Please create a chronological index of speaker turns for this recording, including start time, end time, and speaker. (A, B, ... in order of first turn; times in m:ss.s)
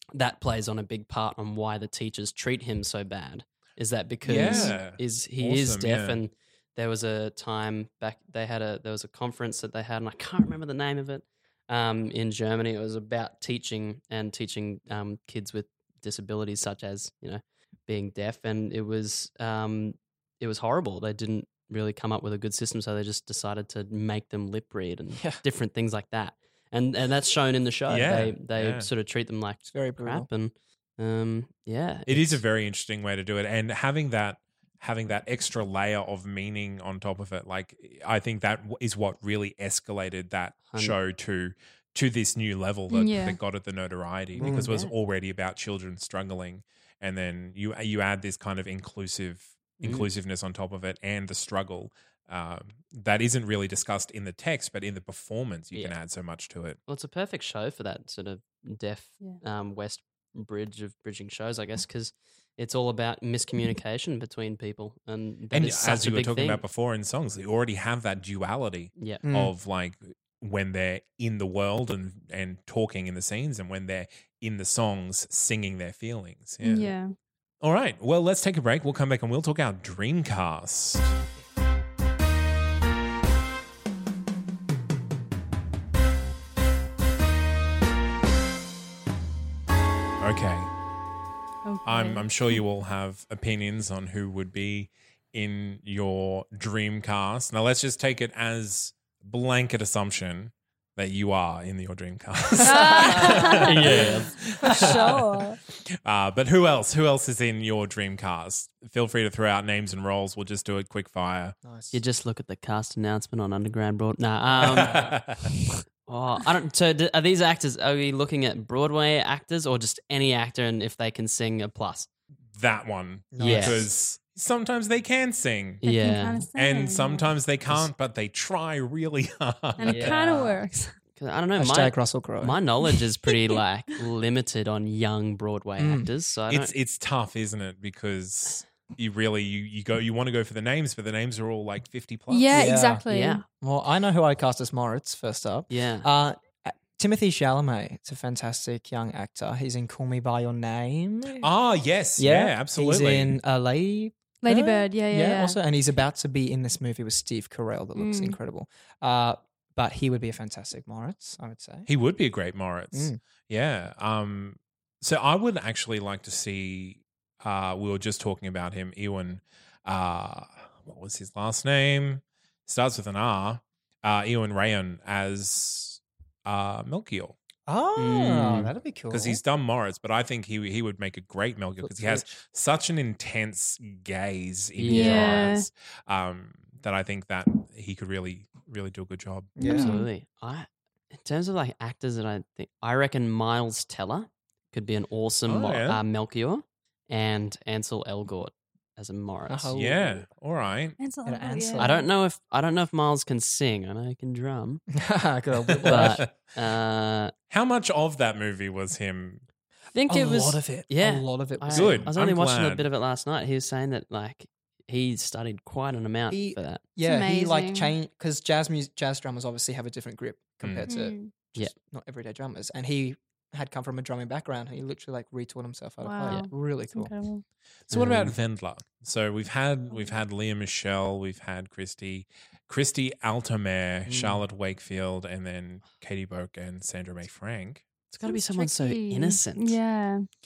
0:00.1-0:32.4 A
0:04.2-0:06.2 B
0:04.4-0:04.8 C
0:25.1-0:25.4 D
0:27.9-0:28.9 B
0:29.6-0:30.3 D
0:32.1-0:56.8 B
0:40.7-0:41.0 A
0:42.9-0:43.4 C
0:44.4-0:44.9 A
0:44.4-0:44.7 D
0:49.8-0:50.1 A
0:56.9-1:06.6 A
1:05.5-1:16.9 B
1:09.0-1:09.2 A
1:09.2-1:09.5 D
1:16.6-1:17.1 C
1:17.6-1:21.1 B
1:30.2-1:30.7 B
1:31.6-1:32.6 C
1:31.8-1:45.4 B
1:42.6-1:44.0 C
1:43.6-1:44.4 A
1:44.6-1:45.6 C
1:46.0-1:51.5 B
1:51.6-1:52.0 D
1:51.9-1:55.1 A
1:54.5-1:55.1 D
1:54.6-1:55.5 B
1:56.0-2:02.1 A
2:02.6-2:05.8 B
2:03.3-2:03.9 D
2:03.4-2:03.8 A
2:05.8-2:06.4 A
2:05.8-2:07.3 C
2:06.5-2:10.2 B
2:09.8-2:11.0 C
2:09.8-2:10.6 D
2:11.1-2:16.7 A
2:11.6-2:12.6 D
2:15.8-2:16.1 D
2:16.5-2:22.8 B
2:22.3-2:23.4 C
2:22.5-2:23.0 D
2:23.1-2:23.4 A
2:23.6-2:31.5 D
2:25.7-2:26.1 A
2:31.4-2:33.4 B
2:32.2-2:41.9 D
2:34.4-2:35.6 C
2:38.0-2:38.4 C
2:41.9-2:57.4 B
2:42.9-2:43.2 D
2:57.6-2:59.4 D
2:58.0-2:58.7 A
2:59.1-3:09.6 B
3:01.8-3:02.3 D
3:04.8-3:05.5 A
3:04.9-3:05.7 C
3:09.6-3:10.0 D
3:09.6-3:19.8 A
3:09.6-3:10.1 C
3:15.5-3:16.0 B
3:19.5-3:20.2 D
3:19.7-3:21.0 B
3:21.0-3:22.1 C
3:21.2-3:22.0 D
3:21.8-3:24.8 A
3:24.9-3:26.2 D
3:25.7-3:26.3 B
3:25.8-3:27.3 A
3:27.5-3:29.4 B
3:29.9-3:36.8 A
3:30.1-3:32.1 D
3:31.7-3:32.8 B
3:36.3-3:47.1 D
3:37.0-3:37.9 C
3:40.6-3:40.9 B
3:40.9-3:41.3 C
3:46.0-3:47.4 C
3:47.9-3:48.3 A
3:47.9-3:57.8 B
3:49.9-3:50.2 C
3:54.1-3:54.4 D
3:58.1-3:59.8 A
3:58.2-4:00.2 C